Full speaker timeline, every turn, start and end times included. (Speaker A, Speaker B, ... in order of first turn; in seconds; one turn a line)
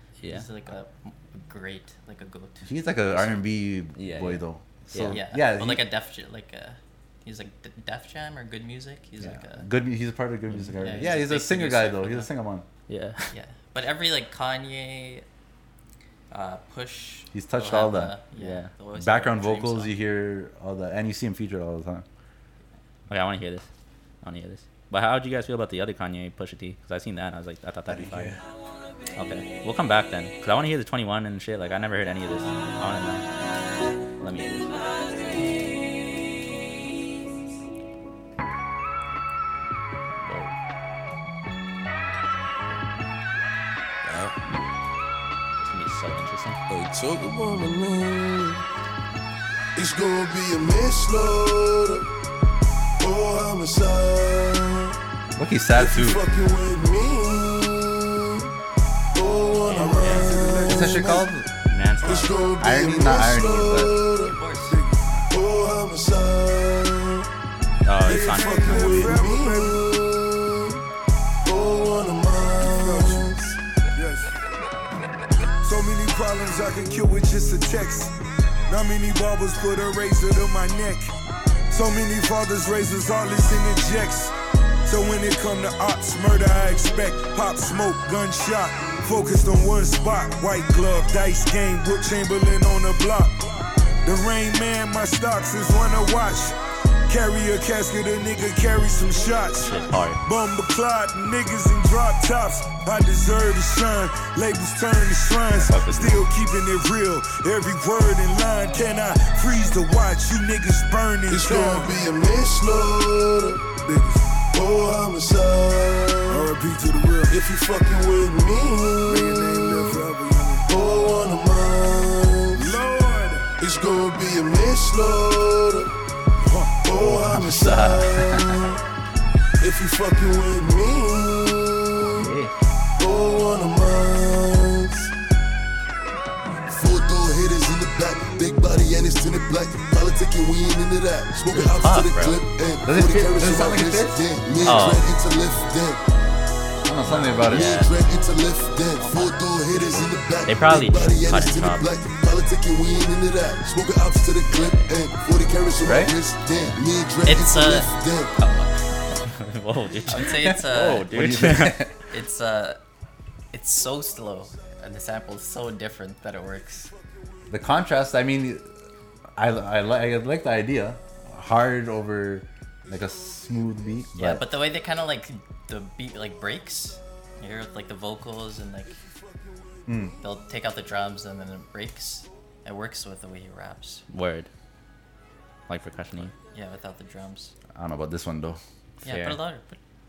Speaker A: 0.2-0.5
Speaker B: 0.2-3.4
Speaker C: 2.6-5.8
Speaker A: 4.0-5.2
Speaker B: 5.1-9.7
Speaker C: 9.2-12.7
Speaker B: 10.8-12.3
Speaker A: 12.9-13.3
Speaker B: 13.3-15.2
Speaker B: 16.3-19.9
Speaker C: 17.3-18.1
Speaker A: 18.4-18.7
Speaker C: 18.9-22.1
Speaker A: 23.1-23.7
Speaker A: 24.2-28.4
Speaker C: 27.9-28.4
Speaker A: 29.1-33.2
Speaker A: 34.2-35.4
Speaker A: 40.2-40.5
Speaker D: 44.0-44.3
Speaker A: 45.6-46.6
Speaker D: 46.7-48.6
Speaker D: 49.8-52.0
Speaker D: 53.0-55.0
Speaker C: 55.4-56.2
Speaker D: 55.7-58.5
Speaker D: 59.1-61.3
Speaker E: 59.7-60.9
Speaker A: 59.8-60.2
Speaker C: 60.6-61.5
Speaker A: 61.6-62.4
Speaker D: 62.0-64.4
Speaker C: 62.6-63.9
Speaker B: 64.2-64.8
Speaker E: 64.7-65.0
Speaker D: 65.3-67.3
Speaker A: 67.8-69.0
Speaker D: 68.0-70.8
Speaker E: 68.1-69.8
Speaker D: 71.5-73.6
Speaker E: 72.6-73.2
Speaker E: 74.0-74.3
Speaker E: 75.6-78.1
Speaker E: 78.7-81.1
Speaker E: 81.7-84.3
Speaker E: 84.8-93.5
Speaker E: 94.0-96.5
Speaker E: 97.1-111.9
Speaker A: 99.6-100.2
Speaker A: 105.6-106.2
Speaker D: 111.3-113.7
Speaker E: 113.8-114.2
Speaker D: 114.5-116.5
Speaker E: 116.3-117.4
Speaker D: 117.3-119.6
Speaker E: 119.0-120.7
Speaker D: 120.6-122.7
Speaker E: 122.5-123.5
Speaker D: 123.6-125.9
Speaker E: 126.4-127.0
Speaker D: 126.8-128.8
Speaker C: 127.3-128.6
Speaker D: 129.6-132.3
Speaker A: 132.1-132.5
Speaker D: 133.0-135.1
Speaker D: 136.7-146.0
Speaker B: 141.5-142.2
Speaker A: 141.9-142.4
Speaker C: 142.8-144.2
Speaker A: 144.6-145.1
Speaker C: 146.8-147.8
Speaker B: 147.1-147.6
Speaker A: 147.4-147.9
Speaker D: 147.4-158.3
Speaker B: 148.9-150.1
Speaker A: 150.5-151.9
Speaker A: 154.5-154.9
Speaker C: 155.8-156.1
Speaker B: 157.2-159.0
Speaker A: 159.2-161.8
Speaker B: 160.1-161.4
Speaker C: 160.4-161.9
Speaker B: 162.0-162.8
Speaker B: 163.5-166.9
Speaker C: 167.5-168.6
Speaker C: 169.4-174.5
Speaker B: 174.2-179.0
Speaker C: 179.9-180.1
Speaker B: 180.2-184.1
Speaker A: 184.1-184.5
Speaker A: 185.7-186.3
Speaker B: 186.3-187.5
Speaker C: 187.7-188.6
Speaker B: 189.0-189.8
Speaker A: 189.1-189.4